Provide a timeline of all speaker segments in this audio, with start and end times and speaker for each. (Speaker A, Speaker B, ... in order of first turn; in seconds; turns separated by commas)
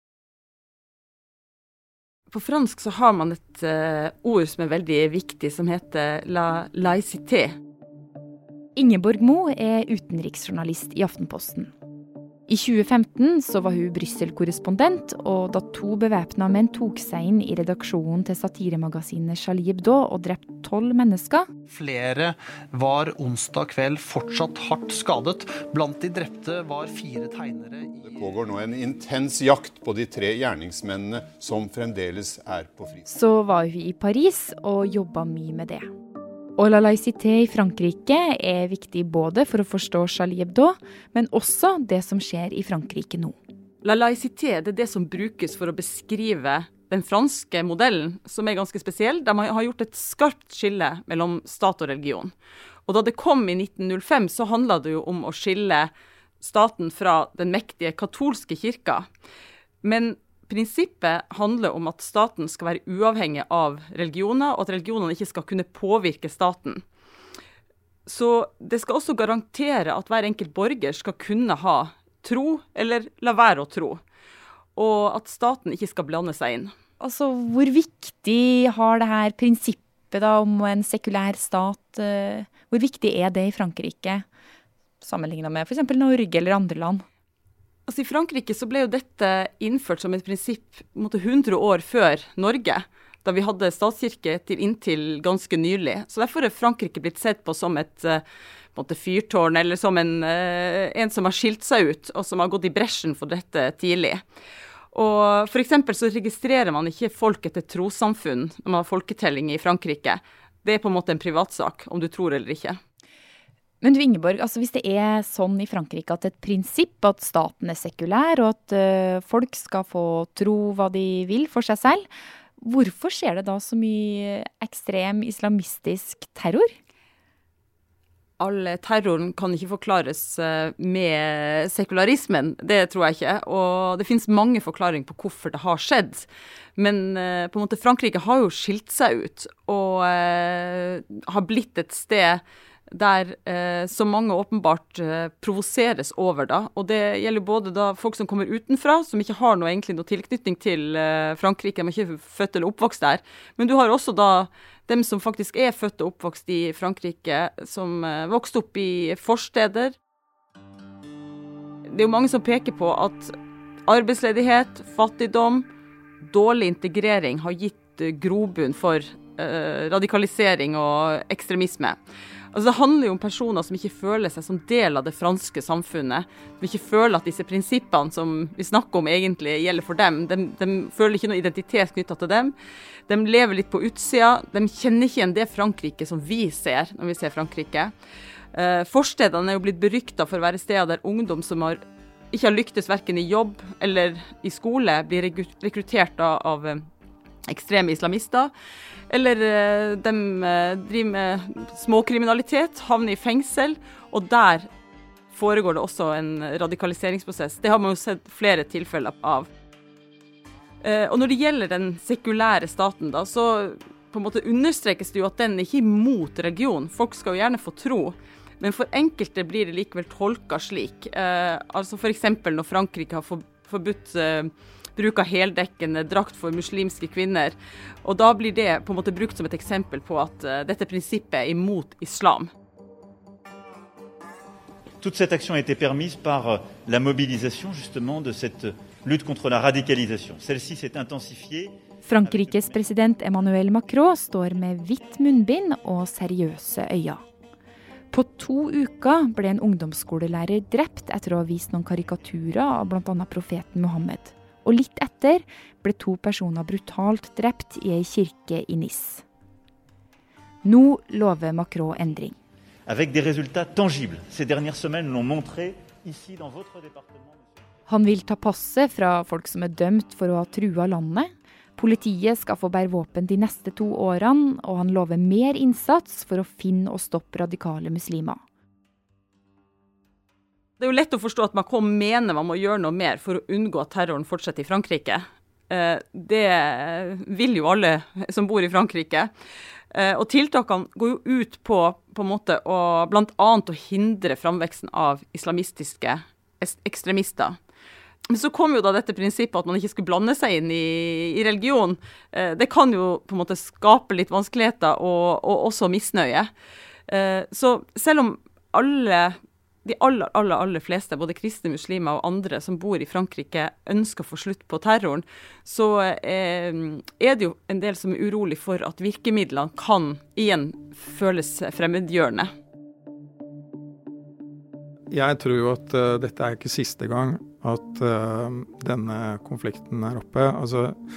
Speaker A: 2.3-7.6, Speaker B: 8.8-11.7, Speaker B: 12.5-21.5, Speaker C: 21.7-28.2, Speaker D: 28.0-33.1, Speaker B: 33.1-35.9, Speaker B: 36.6-43.4, Speaker A: 43.8-52.3, Speaker A: 52.9-59.1, Speaker A: 59.8-66.8, Speaker A: 68.1-74.0, Speaker A: 74.8-76.7, Speaker B: 77.0-84.2, Speaker B: 85.0-87.0, Speaker A: 87.9-98.2, Speaker A: 98.7-104.2, Speaker A: 104.9-112.8, Speaker B: 113.8-122.1, Speaker B: 122.6-126.7, Speaker A: 128.4-159.9, Speaker A: 161.9-163.3, Speaker A: 163.9-165.7, Speaker A: 166.2-172.0, Speaker A: 172.5-182.6, Speaker A: 183.1-187.9, Speaker A: 188.5-196.8, Speaker A: 197.5-198.5, Speaker A: 199.1-204.7, Speaker A: 205.3-209.5, Speaker A: 210.8-232.5, Speaker E: 235.0-241.7, Speaker B: 242.1-247.2, Speaker E: 242.2-242.8, Speaker B: 248.1-259.2, Speaker B: 260.6-262.4, Speaker E: 262.9-267.4, Speaker B: 267.9-278.4, Speaker A: 280.8-289.3, Speaker A: 289.9-297.6, Speaker A: 298.3-306.5, Speaker A: 307.1-322.5, Speaker F: 325.1-330.9